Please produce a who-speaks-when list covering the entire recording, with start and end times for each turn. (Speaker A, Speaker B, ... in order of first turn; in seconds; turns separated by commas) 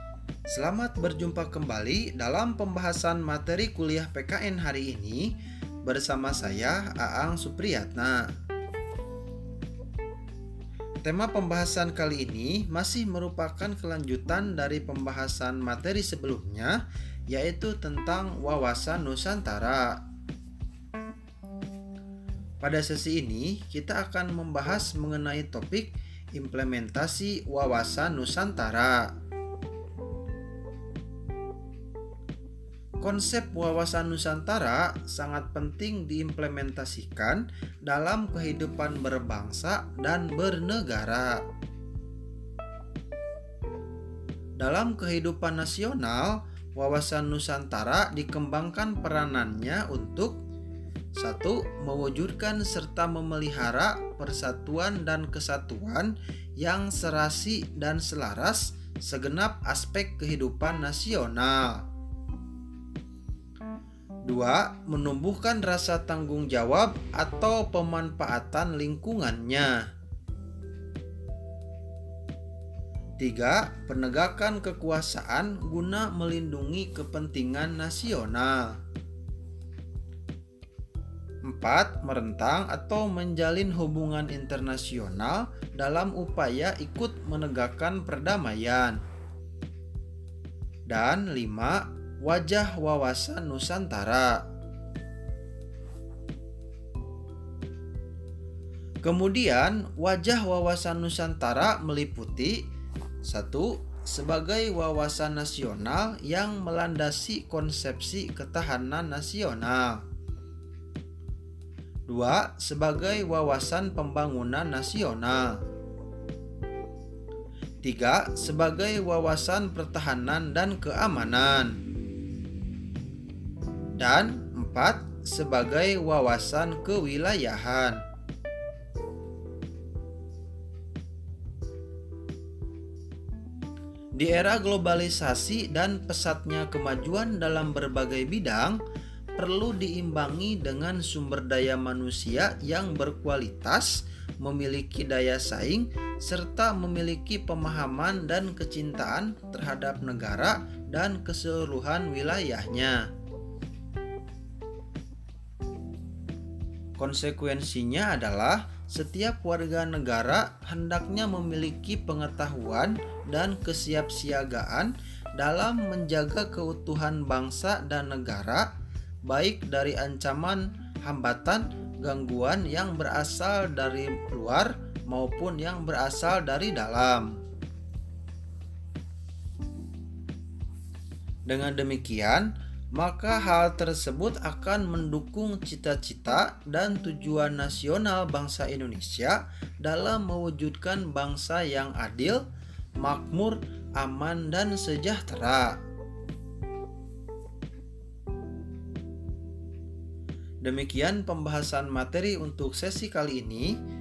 Speaker A: 0.5-8.3, Speaker A: 11.0-20.0, Speaker A: 22.6-29.1, Speaker A: 33.0-41.4, Speaker A: 44.6-50.4, Speaker A: 51.2-61.8, Speaker A: 64.3-69.8, Speaker A: 73.2-78.7, Speaker A: 81.5-89.0, Speaker A: 90.9-94.4, Speaker A: 99.0-102.6, Speaker A: 103.2-110.0, Speaker A: 112.1-115.6, Speaker A: 117.8-121.8, Speaker A: 124.0-128.0, Speaker A: 134.2-138.8, Speaker A: 139.4-153.1, Speaker A: 157.0-168.7, Speaker A: 169.3-177.3, Speaker A: 181.5-192.4, Speaker A: 193.0-195.8, Speaker A: 200.6-203.8